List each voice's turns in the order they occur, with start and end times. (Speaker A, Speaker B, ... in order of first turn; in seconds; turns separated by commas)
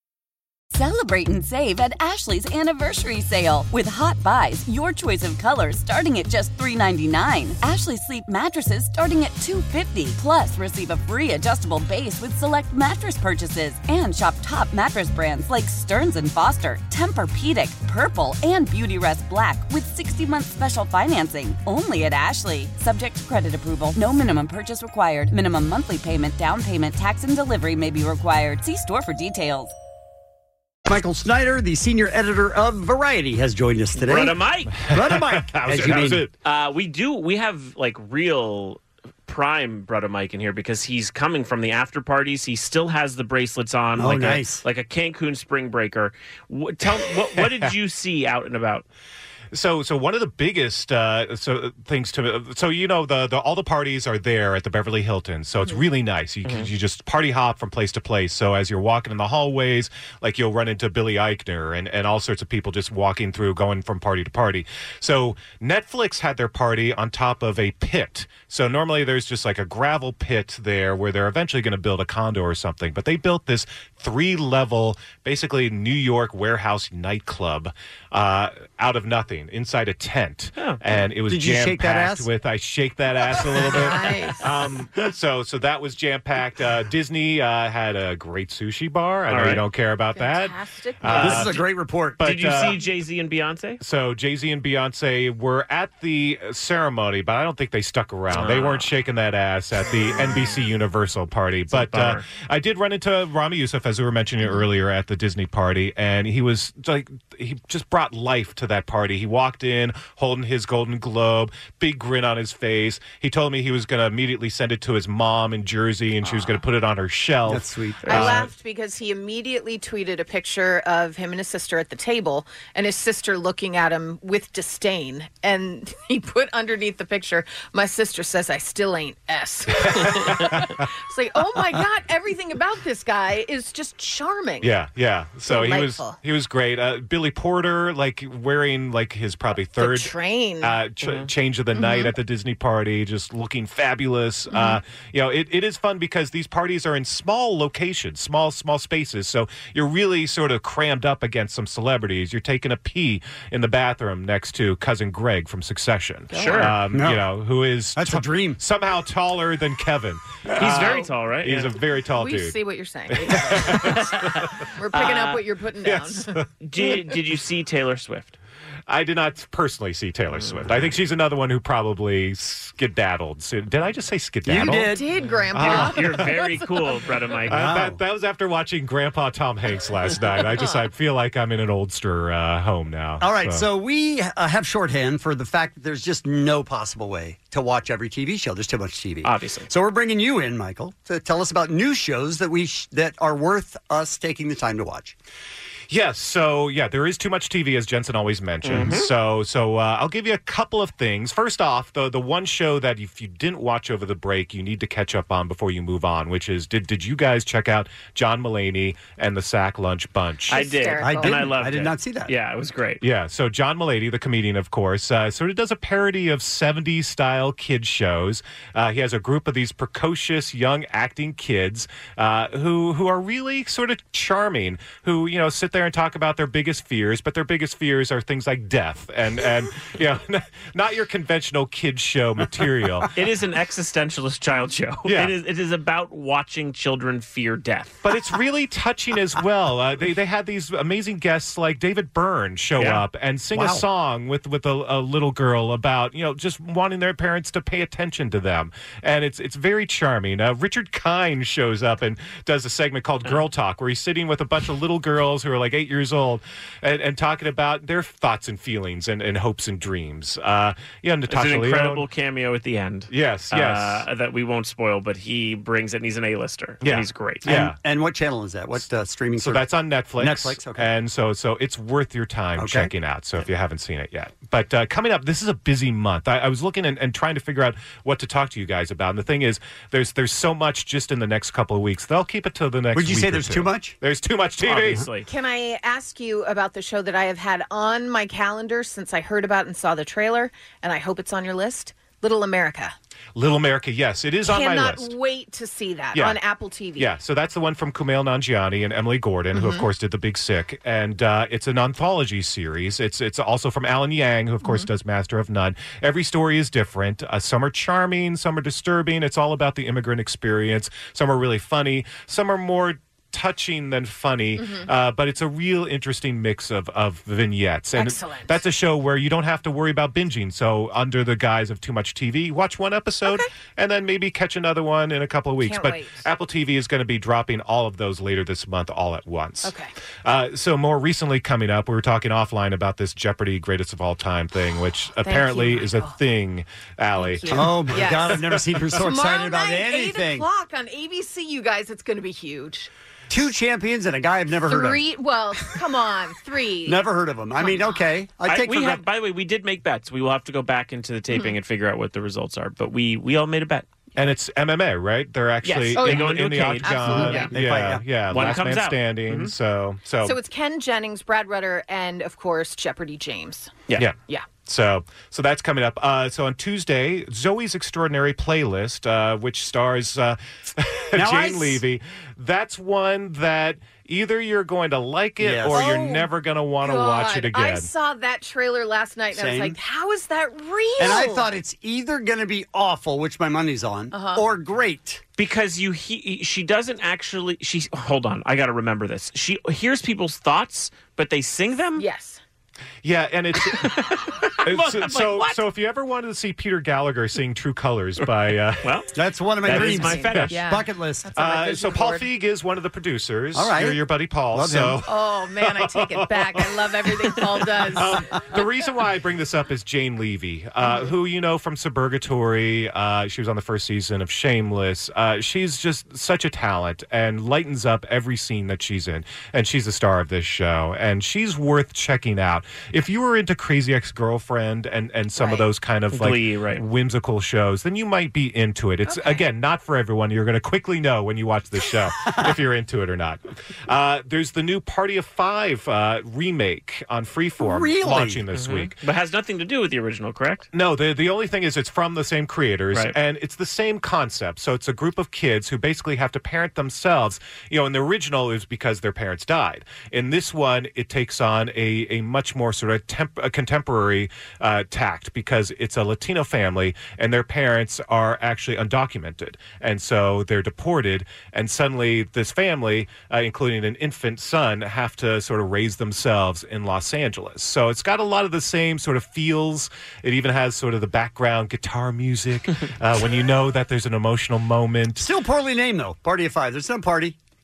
Speaker A: 0.7-29.7, Speaker B: 30.9-36.2, Speaker C: 34.0-34.7, Speaker D: 34.8-36.3, Speaker C: 36.4-48.8, Speaker B: 44.0-44.6, Speaker D: 49.5-91.6, Speaker B: 81.3-82.3, Speaker E: 83.6-84.4, Speaker C: 89.3-89.6, Speaker E: 90.1-91.3, Speaker C: 91.1-91.5, Speaker B: 91.1-92.7, Speaker D: 92.2-92.8, Speaker C: 92.2-93.8, Speaker D: 93.8-118.5, Speaker C: 98.3-98.9, Speaker C: 101.7-102.2, Speaker E: 116.2-116.6, Speaker B: 117.5-118.3, Speaker C: 118.1-118.3, Speaker E: 118.1-134.7, Speaker D: 129.8-130.8, Speaker D: 134.6-162.6, Speaker E: 135.5-136.2, Speaker E: 139.8-140.7, Speaker C: 141.0-141.3, Speaker E: 141.7-142.1, Speaker E: 144.5-144.8, Speaker E: 156.3-156.6, Speaker C: 156.3-156.8, Speaker B: 156.6-157.2, Speaker B: 157.9-158.6, Speaker C: 160.6-161.7, Speaker E: 162.1-164.1, Speaker D: 163.1-164.5, Speaker C: 164.1-165.4, Speaker E: 164.8-166.3, Speaker D: 165.8-166.4, Speaker C: 166.6-168.4, Speaker D: 168.9-174.9, Speaker C: 170.4-170.7, Speaker B: 174.4-175.0, Speaker E: 174.6-176.5, Speaker D: 175.5-176.3, Speaker C: 175.6-177.7, Speaker B: 177.5-178.0, Speaker D: 177.5-183.6, Speaker B: 183.2-195.2, Speaker C: 189.2-189.7, Speaker D: 195.9-210.6, Speaker C: 198.6-199.1, Speaker E: 210.5-211.4, Speaker C: 210.5-213.0, Speaker B: 211.0-212.3, Speaker D: 213.0-233.1, Speaker C: 233.2-238.0, Speaker D: 235.1-235.3, Speaker D: 238.0-262.0, Speaker C: 242.8-243.0, Speaker B: 243.5-243.8, Speaker C: 261.3-267.4, Speaker D: 263.1-264.0, Speaker D: 266.8-267.8, Speaker B: 267.4-269.6, Speaker D: 269.4-285.0, Speaker B: 270.2-270.9, Speaker B: 272.6-272.9, Speaker B: 282.9-283.9, Speaker C: 284.6-285.3, Speaker E: 285.2-292.9, Speaker D: 293.4-295.1, Speaker E: 294.4-297.1, Speaker D: 296.1-296.4, Speaker D: 297.0-329.7, Speaker E: 299.5-299.9, Speaker E: 304.6-304.9, Speaker E: 314.6-314.9, Speaker E: 317.9-318.6, Speaker E: 325.6-326.2, Speaker E: 329.6-329.9, Speaker D: 330.2-338.1, Speaker E: 335.2-336.1, Speaker E: 337.1-342.9, Speaker B: 337.5-340.5, Speaker B: 343.3-345.0, Speaker E: 344.7-347.0, Speaker B: 346.9-349.0, Speaker E: 347.6-348.0, Speaker C: 348.4-353.9, Speaker D: 354.2-360.4, Speaker C: 355.6-357.5, Speaker E: 355.9-356.3, Speaker E: 356.8-357.5, Speaker B: 357.1-358.0, Speaker C: 358.3-359.5, Speaker E: 360.2-363.7, Speaker D: 364.0-377.9, Speaker B: 371.1-371.8, Speaker B: 375.4-375.8, Speaker E: 375.7-376.3, Speaker E: 376.8-381.5, Speaker B: 379.3-379.8, Speaker B: 381.0-385.2, Speaker E: 384.1-384.4, Speaker C: 385.4-392.0, Speaker E: 392.0-392.4, Speaker D: 393.0-393.9, Speaker C: 393.8-395.6, Speaker D: 394.6-398.9, Speaker C: 398.8-399.1, Speaker B: 399.1-401.3, Speaker C: 399.6-400.6, Speaker E: 399.7-402.3, Speaker D: 399.8-400.5, Speaker D: 401.4-405.1, Speaker B: 403.5-404.0, Speaker B: 404.5-405.0, Speaker E: 405.1-408.4, Speaker D: 405.6-406.7, Speaker D: 407.8-438.9, Speaker E: 410.8-411.1, Speaker E: 425.4-425.7, Speaker C: 426.1-426.8, Speaker E: 429.1-429.4, Speaker B: 437.6-438.4, Speaker C: 438.5-440.7, Speaker D: 440.7-475.3, Speaker B: 475.2-477.4